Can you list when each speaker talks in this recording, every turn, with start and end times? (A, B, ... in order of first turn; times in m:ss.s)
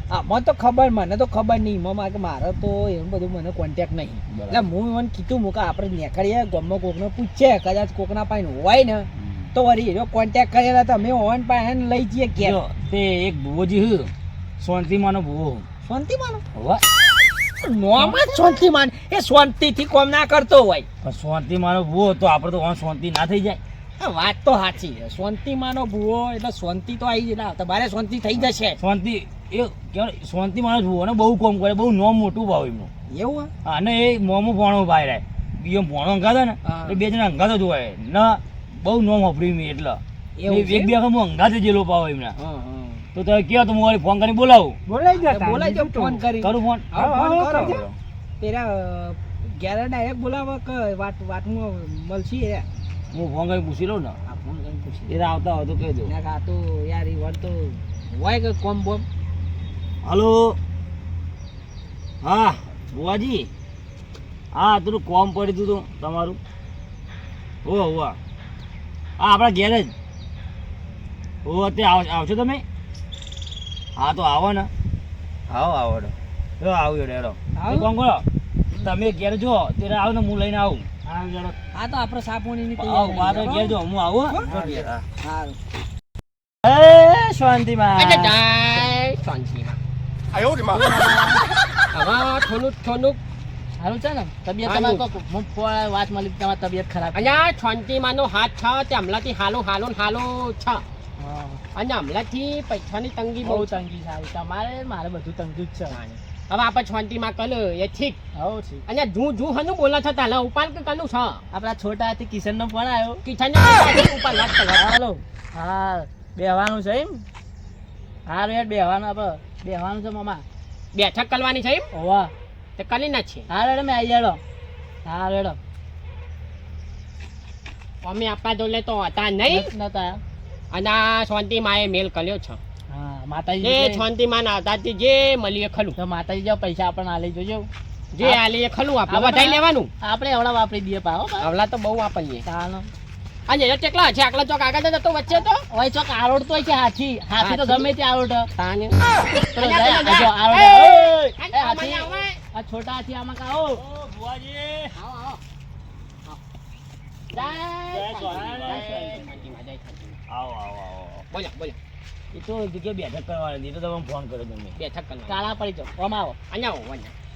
0:00.1-0:12.6 A
0:04.3-0:04.6 B
0:09.2-0:09.5 B
0:12.4-0:15.7 B
0:15.8-0:16.4 A
0:16.5-0:16.8 B
0:17.6-0:20.9 A
0:21.0-0:23.6 B
0:24.0-0:28.8 A
0:28.4-0:32.9 B
0:33.1-0:33.5 A
0:33.6-0:42.4 B
0:36.6-0:37.0 A
0:40.4-0:40.9 A
0:42.4-0:43.1 A
0:43.2-0:44.8 B
0:44.9-0:46.2 C
0:45.1-0:47.8 A
0:46.4-0:46.9 B
0:47.0-0:47.8 C
0:48.4-0:52.7 A
0:53.1-0:54.2 B
0:54.3-0:55.1 A
0:55.1-0:56.1 B
0:56.0-0:59.1 A
1:00.0-1:00.6 B
1:02.2-1:03.5 B
1:04.5-1:06.4 B
1:07.6-1:08.2 B
1:09.2-1:09.9 B
1:11.4-1:12.6 B
1:14.0-1:14.7 B
1:15.5-1:20.9 B
1:17.6-1:17.9 A
1:21.7-1:23.8 A
1:22.8-1:25.0 B
1:24.3-1:25.6 A
1:24.5-1:24.8 C
1:26.6-1:28.8 D
1:28.0-1:29.8 E
1:30.5-1:31.4 D
1:31.9-1:33.2 E
1:33.8-1:37.3 D
1:34.6-1:35.1 E
1:37.1-1:40.8 E
1:41.2-1:41.6 D
1:41.7-1:43.8 E
1:43.4-1:46.0 D
1:45.9-1:48.2 E
1:48.4-1:48.8 D
1:48.9-1:51.4 E
1:51.5-1:53.2 D
1:53.2-1:54.9 E
1:54.7-1:57.2 D
1:58.3-2:00.4 D
2:00.9-2:01.9 E
2:01.9-2:02.3 D
2:02.8-2:03.5 E
2:03.5-2:04.4 D
2:05.0-2:05.6 D
2:08.0-2:09.7 E
2:09.5-2:10.2 D
2:10.7-2:12.6 E
2:12.9-2:14.0 D
2:13.6-2:16.0 E
2:16.0-2:17.7 D
2:18.1-2:19.9 E
2:19.1-2:21.5 D
2:21.4-2:22.4 E
2:22.5-2:22.9 D
2:23.5-2:25.6 E
2:25.7-2:28.5 D
2:27.4-2:27.9 E
2:28.6-2:29.0 E
2:29.4-2:33.8 D
2:29.6-2:32.4 E
2:33.8-2:35.0 B
2:35.0-2:35.4 E
2:37.3-2:40.2 E
2:37.3-2:37.6 D
2:37.9-2:39.5 B
2:38.3-2:39.2 D
2:40.3-2:41.3 B
2:41.3-2:41.8 E
2:42.3-2:44.8 B
2:44.8-2:45.4 E
2:45.3-2:46.4 D
2:46.5-2:47.1 E